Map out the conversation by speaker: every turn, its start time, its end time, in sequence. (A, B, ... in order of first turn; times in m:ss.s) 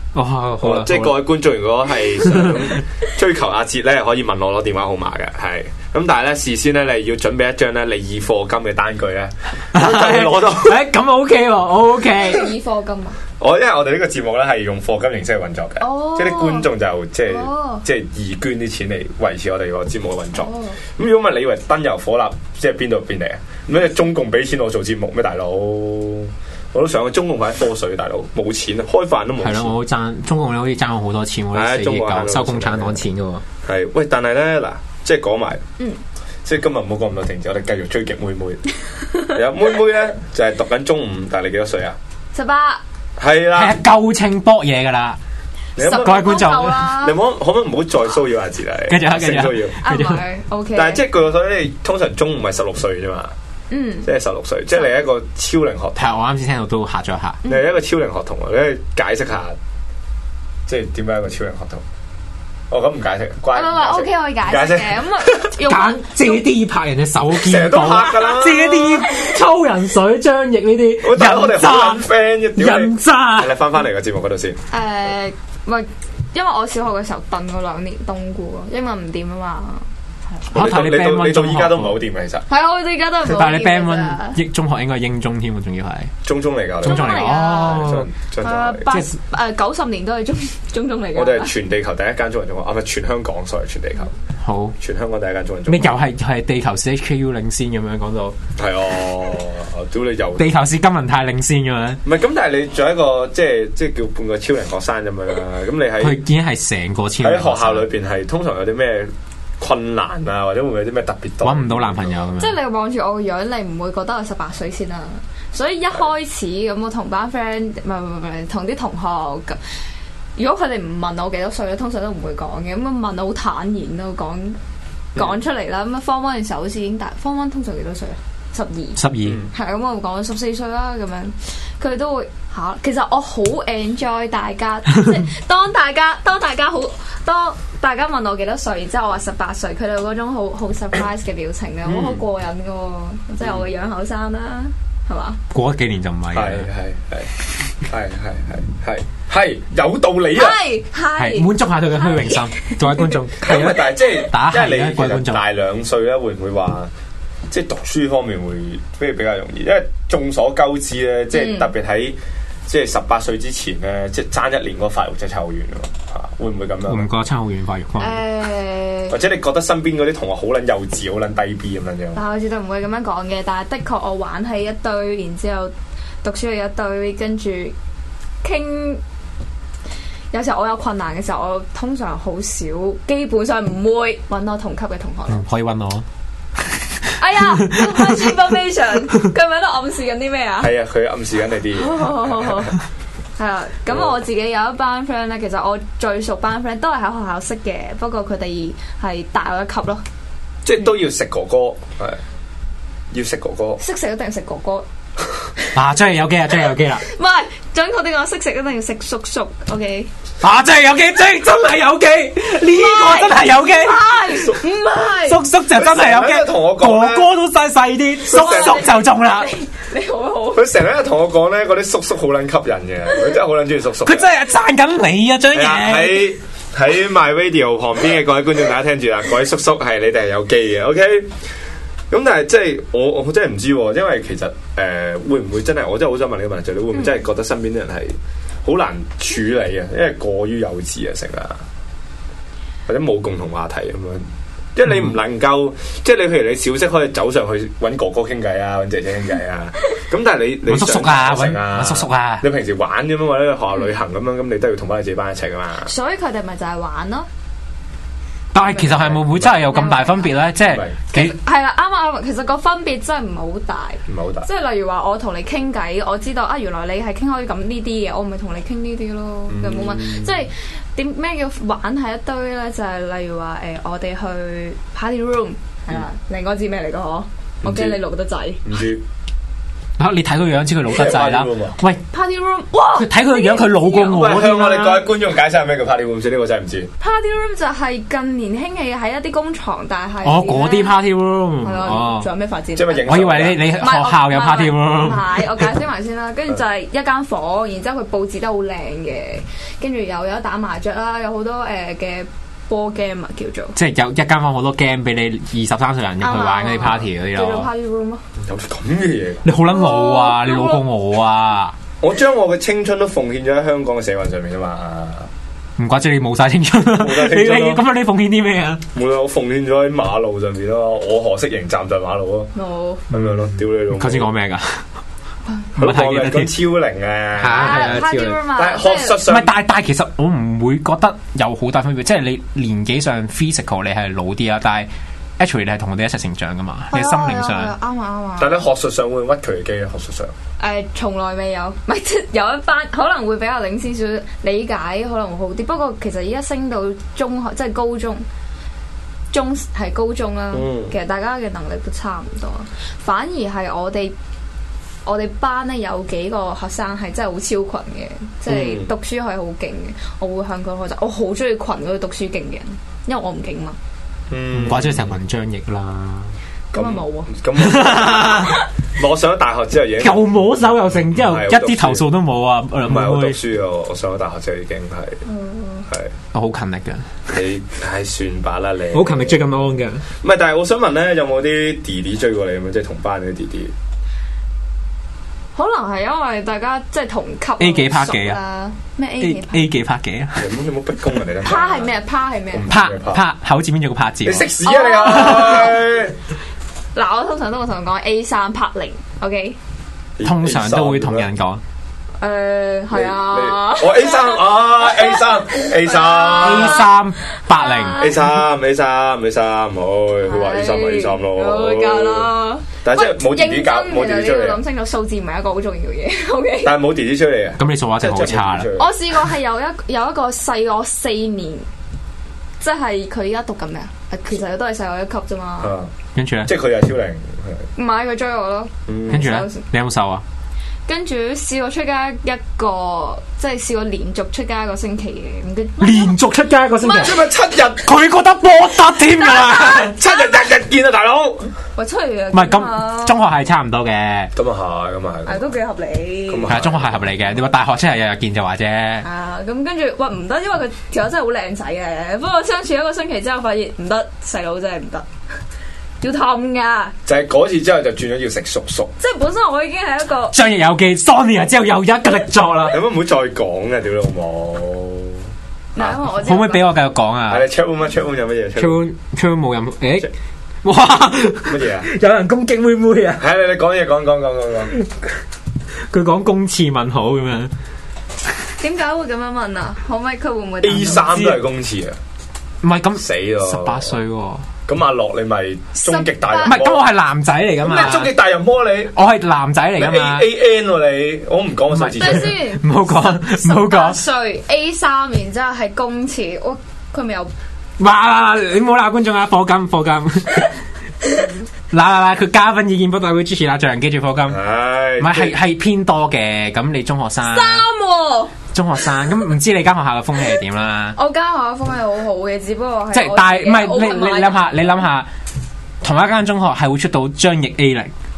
0:00.1-0:01.2 A
0:00.6-0:10.8 B
0:02.2-0:02.8 A
0:09.7-0:12.5 A
0:12.1-0:13.2 C
0:13.4-0:29.7 B
0:15.8-0:16.7 C
0:17.3-0:17.8 C
0:20.3-0:20.8 C
0:29.4-0:33.4 A
0:31.5-0:33.0 B
0:33.6-0:35.6 B
0:36.4-0:38.6 B
0:39.1-0:39.4 C
0:39.3-0:42.0 B
0:42.3-0:42.8 C
0:43.2-0:43.8 B
0:43.5-0:45.2 A
0:45.8-0:46.3 B
0:45.8-0:47.2 C
0:45.9-0:46.9 A
0:46.9-0:49.8 B
0:48.9-0:50.2 A
0:49.8-0:51.0 C
0:50.7-0:53.3 B
0:53.7-0:54.1 C
0:54.0-0:56.1 B
0:56.0-0:57.4 A
0:57.4-0:57.7 C
0:57.4-0:59.6 B
1:00.7-1:01.8 B
1:02.7-1:05.4 B
1:03.5-1:06.4 C
1:05.6-1:12.0 A
1:07.4-1:08.8 B
1:08.4-1:09.3 C
1:11.0-1:14.6 B
1:12.6-1:13.6 A
1:14.7-1:19.8 C
1:20.5-1:22.4 B
1:20.5-1:22.0 A
1:22.5-1:24.4 C
1:23.2-1:26.1 A
1:26.2-1:28.9 B
1:26.8-1:27.9 C
1:26.8-1:28.1 A
1:28.4-1:31.5 C
1:31.1-1:34.1 B
1:34.4-1:34.8 A
1:34.8-1:36.0 B
1:35.7-1:38.4 A
1:38.6-1:40.4 B
1:40.4-1:42.0 A
1:42.0-1:46.2 B
1:46.0-1:47.8 A
1:47.2-1:52.3 B
1:51.4-1:52.6 A
1:52.4-1:59.6 C
2:00.4-2:04.6 C
2:05.1-2:09.0 C
2:09.0-2:09.4 A
2:09.2-2:09.5 B
2:09.5-2:25.4 C
2:21.9-2:22.2 B
2:25.5-2:26.7 A
2:26.3-2:30.6 B
2:30.3-2:33.2 C
2:31.2-2:35.4 A
2:33.4-2:36.9 B
2:37.5-2:47.1 B
2:41.3-2:41.7 C
2:46.9-2:48.2 A
2:48.0-2:49.2 C
2:49.1-2:52.2 B
2:52.1-2:57.7 C
2:58.4-2:59.0 C
3:00.3-3:05.4 C
3:05.3-3:06.0 A
3:07.2-3:10.7 C
3:07.5-3:08.4 A
3:10.6-3:12.7 B
3:11.8-3:12.8 C
3:13.4-3:20.0 C
3:20.6-3:22.2 B
3:23.1-3:23.8 B
3:23.8-3:24.9 C
3:25.7-3:27.0 A
3:27.0-3:30.1 C
3:30.4-3:34.0 A
3:32.7-3:35.4 C
3:35.2-3:39.5 A
3:35.7-3:37.3 B
3:38.3-3:38.8 B
3:38.3-3:40.7 C
3:40.5-3:44.3 B
3:44.0-3:46.4 A
3:45.5-3:51.3 B
3:52.1-4:01.6 B
3:56.9-3:57.2 C
4:02.9-4:15.9 B
4:10.7-4:12.4 A
4:15.8-4:17.3 C
4:18.5-4:21.4 A
4:18.6-4:20.4 C
4:19.0-4:19.6 B
4:20.7-4:20.9 B
4:21.1-4:38.6 C
4:24.1-4:24.5 B
4:29.5-4:30.4 B
4:37.6-4:38.0 B
4:38.6-4:39.0 B
4:40.0-4:42.0 A
4:40.9-4:41.8 B
4:42.1-4:44.2 C
4:42.9-4:45.1 A
4:44.0-4:46.9 B
4:47.0-4:51.0 C
4:50.2-4:52.3 A
4:51.6-5:03.8 C
4:52.8-4:53.7 B
4:53.1-4:55.7 A
5:03.8-5:07.7 A
5:06.2-5:08.2 C
5:08.4-5:09.5 B
5:09.4-5:11.8 A
5:09.6-5:10.8 C
5:12.0-5:15.3 B
5:15.8-5:18.8 A
5:16.9-5:17.8 B
5:18.9-5:22.5 B
5:22.5-5:23.0 C
5:23.1-5:24.3 B
5:23.9-5:24.9 A
5:25.8-5:29.5 B
5:25.8-5:26.5 A
5:27.4-5:28.4 A
5:27.5-5:29.2 C
5:29.3-5:37.7 A
5:36.9-5:38.6 C
5:38.4-5:40.3 B
5:40.6-5:48.2 C
5:49.3-5:54.1 C
5:50.5-5:50.9 B
5:55.0-6:03.8 C
5:58.5-5:58.9 B
6:04.3-6:05.2 B
6:04.5-6:06.3 A
6:06.7-6:08.7 C
6:06.7-6:12.0 B
6:07.6-6:08.6 A
6:10.0-6:13.4 A
6:12.8-6:15.2 B
6:15.2-6:15.9 C
6:15.9-6:16.1 B
6:16.3-6:17.1 A
6:17.3-6:19.6 B
6:18.9-6:20.0 A
6:20.2-6:23.7 B
6:25.5-6:29.7 C
6:27.6-6:28.4 A
6:29.2-6:30.5 A
6:30.4-6:31.9 B
6:31.4-6:32.7 C
6:32.5-6:33.2 B
6:32.7-6:34.5 A
6:34.2-6:36.2 B
6:34.6-6:35.8 C
6:35.0-6:35.6 A
6:36.9-6:39.6 C
6:40.2-6:41.3 B
6:40.2-6:41.6 A
6:42.2-6:46.9 C
6:42.9-6:46.9 B
6:46.4-6:48.2 A
6:47.5-6:48.2 C
6:48.0-6:52.3 B
6:50.2-6:56.8 C
6:52.8-6:54.6 B
6:56.6-6:58.9 B
6:57.6-6:58.7 A
6:58.8-7:01.7 C
7:02.6-7:05.8 C
7:05.6-7:05.9 B
7:06.1-7:06.5 A
7:06.4-7:07.6 B
7:07.8-7:09.6 C
7:08.9-7:09.2 B
7:09.1-7:10.2 A
7:10.9-7:16.1 C
7:15.8-7:17.2 A
7:16.8-7:17.2 C
7:17.0-7:17.9 B
7:17.8-7:20.0 A
7:19.1-7:20.4 C
7:19.6-7:21.5 B
7:21.8-7:23.2 C
7:22.3-7:24.3 A
7:24.4-7:25.5 B
7:25.2-7:26.5 C
7:26.3-7:27.4 B
7:26.5-7:29.0 A
7:29.0-7:35.1 C
7:36.0-7:36.9 C
7:37.0-7:38.9 B
7:39.0-7:40.4 C
7:40.3-7:42.8 A
7:42.7-7:45.2 B
7:45.8-7:46.7 C
7:46.1-7:47.5 A
7:47.3-7:48.8 B
7:48.6-7:50.1 A
7:50.6-7:53.2 A
7:51.5-7:51.9 B
7:53.2-7:54.7 B
7:55.9-7:57.5 A
7:58.6-8:01.1 C
8:00.6-8:02.0 B
8:00.9-8:01.4 A
8:02.6-8:04.4 A
8:03.0-8:03.9 B
8:04.7-8:06.8 B
8:05.8-8:06.6 C
8:06.4-8:08.1 A
8:07.6-8:09.0 B
8:08.9-8:10.3 A
8:09.8-8:12.4 B
8:11.7-8:14.0 A
8:12.0-8:17.3 C
8:17.8-8:20.5 A
8:21.7-8:24.4 A
8:24.3-8:25.4 B
8:25.0-8:27.6 A
8:27.2-8:28.4 C
8:28.5-8:31.0 A
8:31.0-8:34.8 C
8:32.9-8:35.1 A
8:35.8-8:37.9 A